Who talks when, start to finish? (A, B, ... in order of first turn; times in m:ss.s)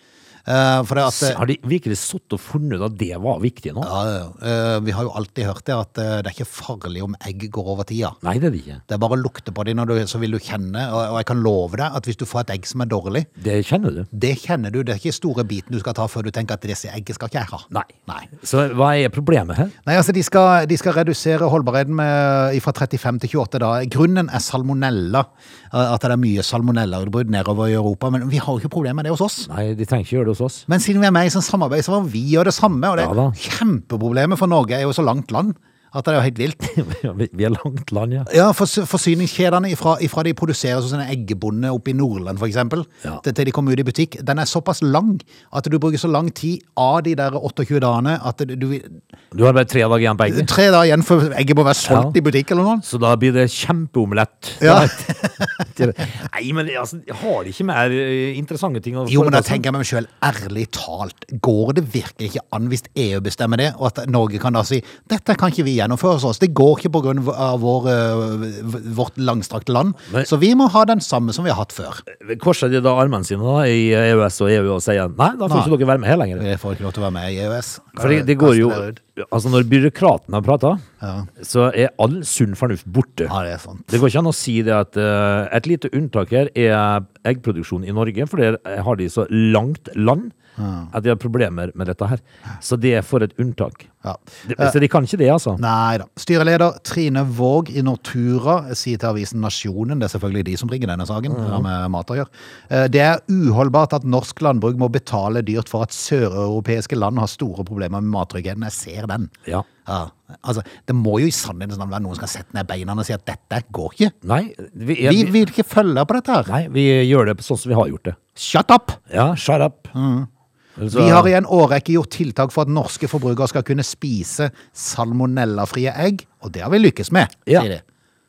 0:00.5-0:01.4 A
0:01.0-0:03.9 B
0:03.8-0:08.2 A
0:08.2-0:08.8 B
0:08.9-0:13.3 A
0:13.4-0:14.1 B
0:14.1-0:18.3 A
0:17.7-0:19.7 B
0:19.8-0:29.5 A
0:29.5-0:30.7 B
0:30.7-0:36.7 A
0:33.0-0:33.4 B
0:36.6-0:38.3 B
0:38.3-0:49.0 A
0:49.3-0:50.5 B
0:50.3-0:52.8 A
0:51.8-0:52.2 B
0:52.8-0:59.6 B
0:54.6-0:55.7 A
0:59.1-1:12.1 A
1:12.1-1:16.4 B
1:15.5-1:15.7 A
1:16.4-1:19.0 A
1:18.0-1:20.8 B
1:21.0-1:21.3 A
1:21.4-1:23.3 B
1:23.3-1:24.0 A
1:23.9-1:30.3 B
1:30.6-1:30.9 A
1:30.9-1:33.9 B
1:34.0-1:34.8 A
1:34.4-1:35.6 B
1:35.6-1:49.3 A
1:41.3-1:41.7 B
1:49.8-1:54.2 A
1:54.2-1:55.3 B
1:55.0-1:56.5 A
1:56.5-1:58.2 B
1:58.4-1:59.0 A
1:59.1-1:59.9 B
1:59.9-2:00.3 A
2:00.8-2:01.3 B
2:00.9-2:07.8 A